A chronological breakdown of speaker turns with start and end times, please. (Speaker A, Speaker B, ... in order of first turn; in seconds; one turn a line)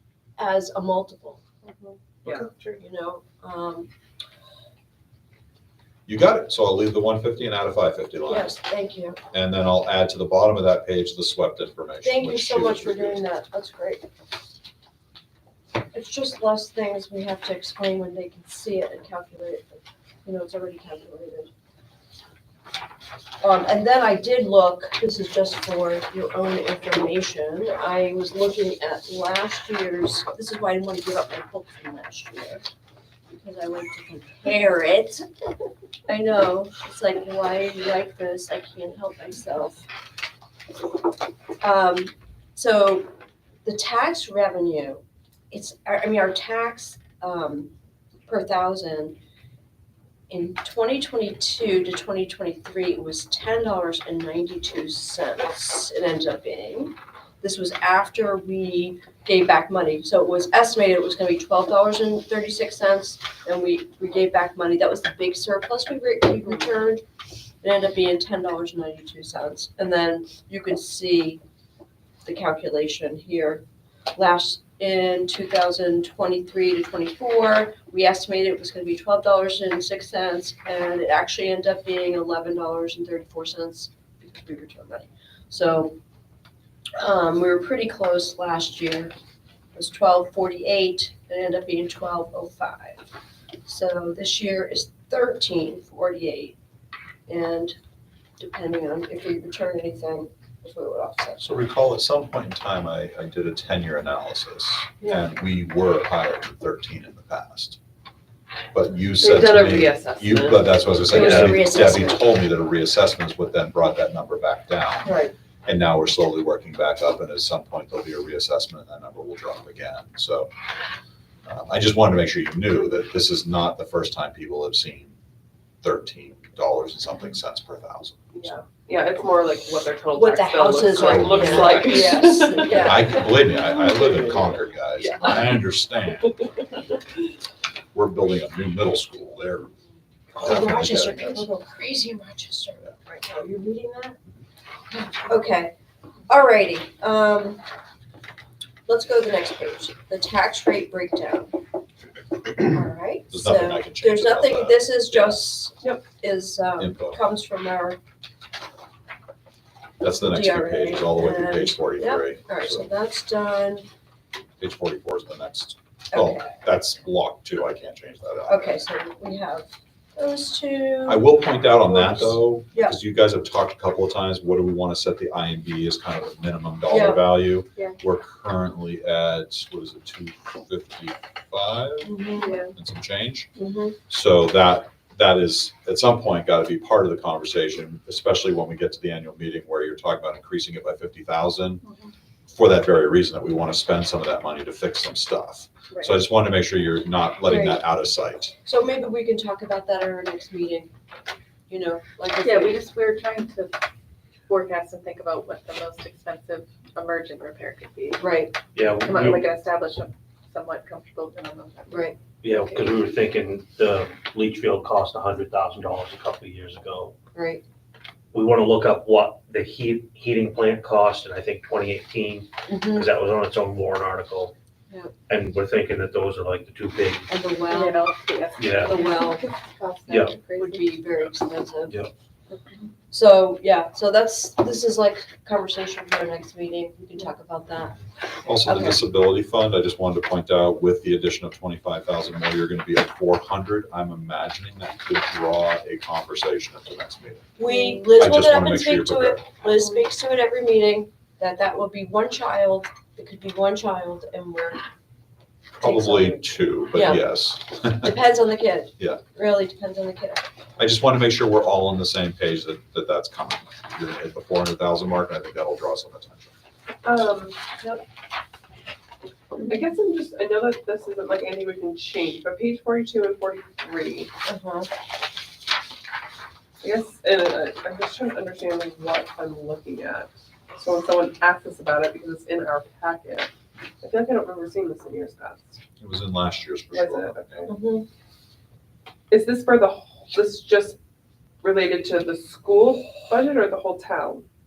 Speaker A: 0.4-1.4
Speaker B: 1.7-1.9
Speaker C: 2.2-2.8
Speaker A: 2.8-3.9
Speaker D: 6.1-8.5
Speaker A: 8.3-9.2
Speaker D: 9.3-13.2
Speaker A: 12.0-14.1
Speaker A: 15.9-21.5
Speaker A: 23.4-32.7
Speaker A: 33.3-35.2
Speaker A: 36.1-39.9
Speaker A: 41.6-43.1
Speaker A: 43.6-47.7
Speaker A: 48.3-49.2
Speaker A: 50.3-67.0
Speaker A: 67.6-71.4
Speaker A: 72.2-73.6
Speaker A: 74.1-86.0
Speaker A: 87.0-89.1
Speaker A: 89.8-93.0
Speaker A: 93.7-96.6
Speaker A: 97.3-97.8
Speaker A: 98.4-101.5
Speaker D: 101.4-107.8
Speaker A: 105.0-105.3
Speaker D: 108.7-120.5
Speaker A: 111.0-112.3
Speaker E: 111.1-111.6
Speaker A: 115.0-115.3
Speaker D: 121.5-125.2
Speaker D: 125.8-128.2
Speaker C: 128.3-133.1
Speaker A: 130.1-133.3
Speaker D: 130.9-136.4
Speaker B: 131.7-132.7
Speaker C: 135.0-135.6
Speaker D: 137.9-139.7
Speaker A: 140.3-144.2
Speaker D: 140.4-141.4
Speaker A: 145.1-145.7
Speaker A: 146.3-147.6
Speaker A: 148.9-151.6
Speaker A: 152.6-158.0
Speaker D: 153.3-155.4
Speaker D: 156.8-157.2
Speaker D: 160.0-162.9
Speaker A: 160.1-163.9
Speaker D: 164.6-168.7
Speaker A: 166.1-166.5
Speaker A: 168.5-173.0
Speaker D: 171.1-183.5
Speaker A: 176.9-177.2
Speaker A: 182.0-182.7
Speaker B: 182.4-182.7
Speaker A: 183.6-184.0
Speaker D: 184.1-191.8
Speaker B: 191.8-192.1
Speaker D: 192.5-198.5
Speaker A: 197.4-197.8
Speaker A: 198.6-200.9
Speaker A: 201.7-202.8
Speaker B: 202.4-203.8
Speaker B: 204.5-208.3
Speaker A: 208.2-208.5
Speaker E: 208.7-209.5
Speaker B: 209.0-212.1
Speaker A: 211.9-212.2
Speaker E: 212.4-217.2
Speaker A: 217.3-217.6
Speaker E: 218.3-224.5
Speaker A: 222.7-223.1
Speaker E: 225.3-227.3
Speaker A: 227.3-228.0
Speaker B: 227.7-231.0
Speaker E: 228.6-229.0
Speaker A: 228.8-229.5
Speaker E: 230.1-230.4
Speaker A: 230.6-232.0
Speaker A: 233.1-238.0
Speaker D: 238.5-247.5
Speaker A: 238.6-239.0
Speaker A: 247.6-254.9
Speaker B: 247.6-248.1
Speaker D: 248.1-249.4
Speaker D: 255.8-258.2
Speaker A: 255.8-257.4
Speaker A: 257.9-260.5
Speaker D: 260.8-266.5
Speaker C: 267.0-268.0
Speaker C: 269.6-274.3
Speaker A: 274.4-274.9
Speaker C: 276.8-285.8
Speaker D: 286.0-287.7
Speaker C: 286.9-287.7
Speaker A: 287.7-288.1
Speaker C: 289.3-291.0
Speaker C: 291.6-294.4